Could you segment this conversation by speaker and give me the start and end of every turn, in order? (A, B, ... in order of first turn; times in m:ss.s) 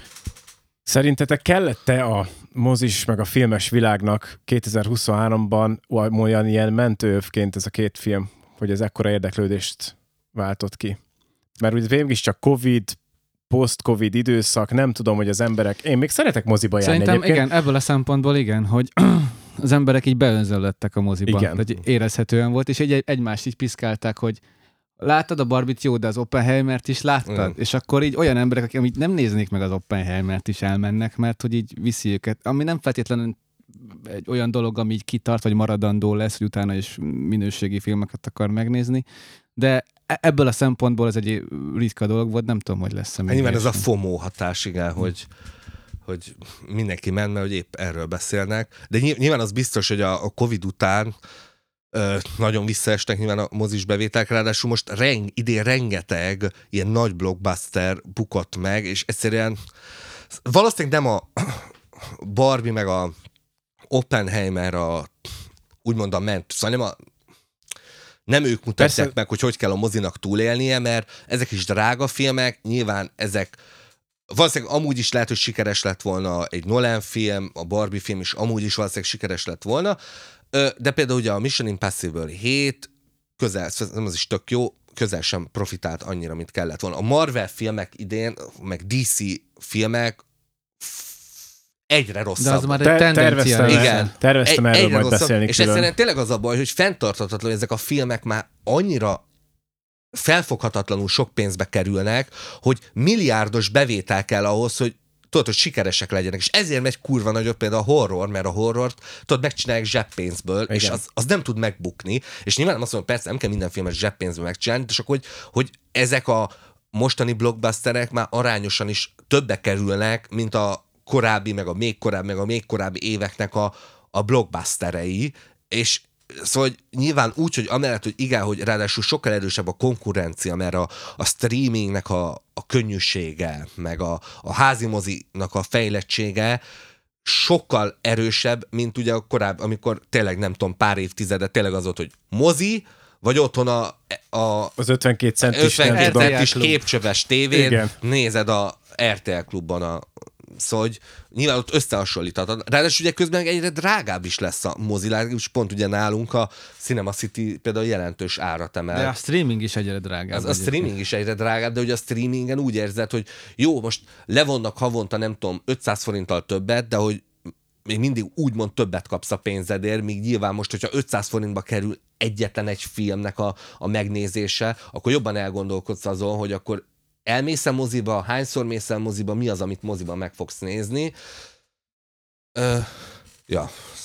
0:00.8-0:11.0 A
0:11.6-0:13.0 A
0:13.5-0:17.5 A
0:16.8-0:24.4 B
0:21.3-0:21.6 A
0:25.0-0:39.0 B
0:27.2-0:27.5 C
0:39.6-0:43.8 B
0:43.3-0:45.3 C
0:46.0-0:51.1 C
0:51.9-0:59.6 C
1:00.4-1:03.1 C
1:03.9-1:05.3 C
1:05.8-1:07.0 C
1:08.3-1:13.6 C
1:08.8-1:09.1 A
1:14.3-1:20.0 C
1:20.5-1:30.2 C
1:30.8-1:31.3 C
1:31.9-1:32.8 C
1:32.4-1:34.1 B
1:32.8-1:35.9 A
1:33.6-1:39.2 C
1:40.1-2:16.6 C
1:50.7-1:51.0 A
2:17.2-2:24.7 C
2:24.8-2:26.4 A
2:25.4-2:39.1 C
2:25.9-2:26.8 B
2:27.5-2:27.9 A
2:38.9-2:40.9 B
2:40.3-2:47.3 C
2:47.8-3:01.1 C
3:02.5-3:03.8 C